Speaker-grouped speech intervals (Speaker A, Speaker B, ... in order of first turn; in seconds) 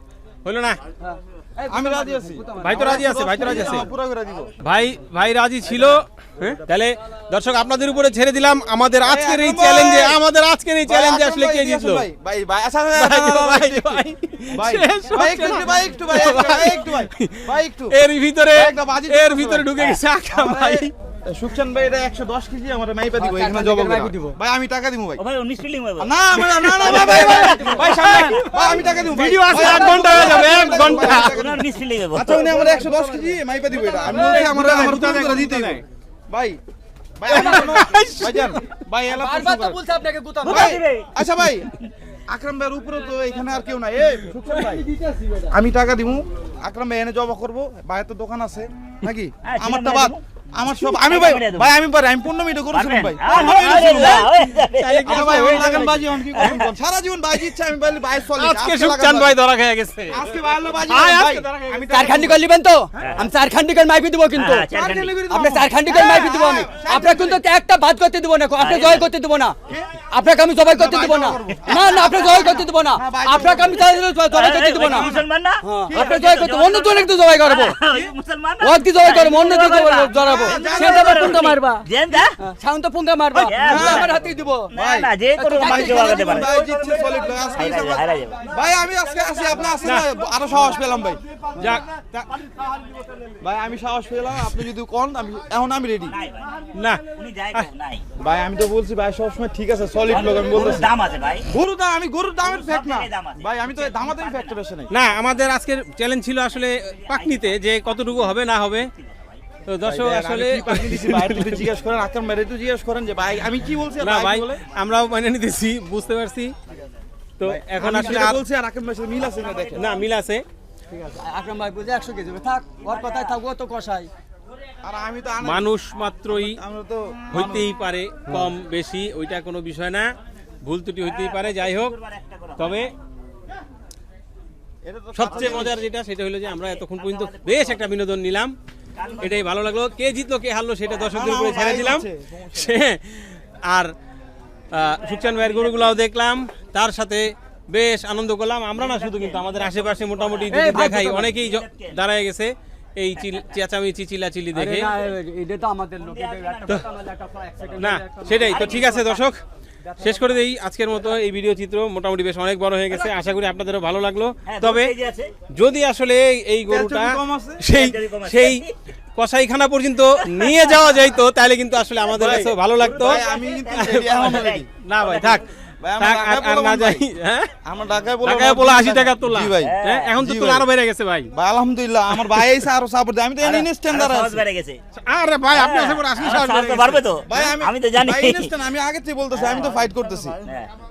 Speaker A: 0.4-0.8, 2.6-3.9, 4.6-12.1, 12.9-20.9, 26.4-31.4, 34.0-35.8, 37.3-38.8, 53.3-56.1, 58.4-62.0, 91.6-92.3, 96.8-97.7, 104.9-108.9, 109.7-111.7, 114.0-116.5, 117.4-118.4, 119.7-120.4, 125.4-126.6, 127.3-130.1, 130.6-131.9, 132.6-132.9, 135.1-138.5, 139.2-143.9, 144.7-154.9, 157.8-159.4, 160.0-164.9, 165.5-168.6, 169.2-173.2, 173.8-175.4, 176.0-177.5, 178.2-181.3, 182.1-182.6, 184.9-187.0
Speaker B: 1.0-3.8, 23.2-24.4, 26.8-28.9, 29.5-31.2, 32.4-34.8, 37.3-37.8, 39.1-40.8, 44.9-45.3, 61.9-64.7, 65.3-69.5, 70.1-75.1, 75.6-77.8, 78.6-81.9, 82.4-84.7, 85.3-86.5, 120.9-124.1, 150.5-151.3, 154.5-159.1, 159.9-160.4
Speaker C: 1.7-4.5, 5.7-6.5, 9.0-10.2, 10.8-18.0, 18.5-25.2, 26.0-36.6, 37.2-39.8, 40.4-41.7, 42.3-44.9, 45.5-54.3, 55.0-59.3, 60.1-62.5, 64.7-67.4, 70.7-74.0, 74.8-75.3, 75.9-76.2, 80.2-81.5, 83.7-84.1, 84.7-91.2, 93.4-96.2, 98.2-100.9, 101.5-104.9, 109.8-114.6, 117.4-119.9, 124.8-125.7, 126.3-127.7, 134.8-135.8, 141.1-142.7, 166.7-167.6, 172.1-174.7, 175.8-177.0, 177.6-180.7, 181.3-184.4, 187.2-190.3
Speaker D: 25.2-26.1, 26.6-27.8, 29.3-32.6, 40.4-41.1, 49.4-50.2, 50.8-51.7, 52.7-56.7, 64.3-65.2, 68.6-69.1, 71.7-72.2, 74.3-82.3, 83.5-84.1, 84.7-88.4, 96.1-96.5, 97.1-98.1, 100.1-101.5, 102.4-104.5, 107.0-107.6, 109.0-109.4, 131.1-132.8, 135.3-135.7, 136.9-137.8, 138.9-139.6, 145.2-145.9, 148.7-152.0, 153.2-153.5, 156.0-156.8, 158.4-159.2, 164.4-165.3, 167.7-168.7, 170.3-170.9, 172.1-175.4, 179.6-180.1, 183.4-184.8, 185.5-188.6, 189.3-190.7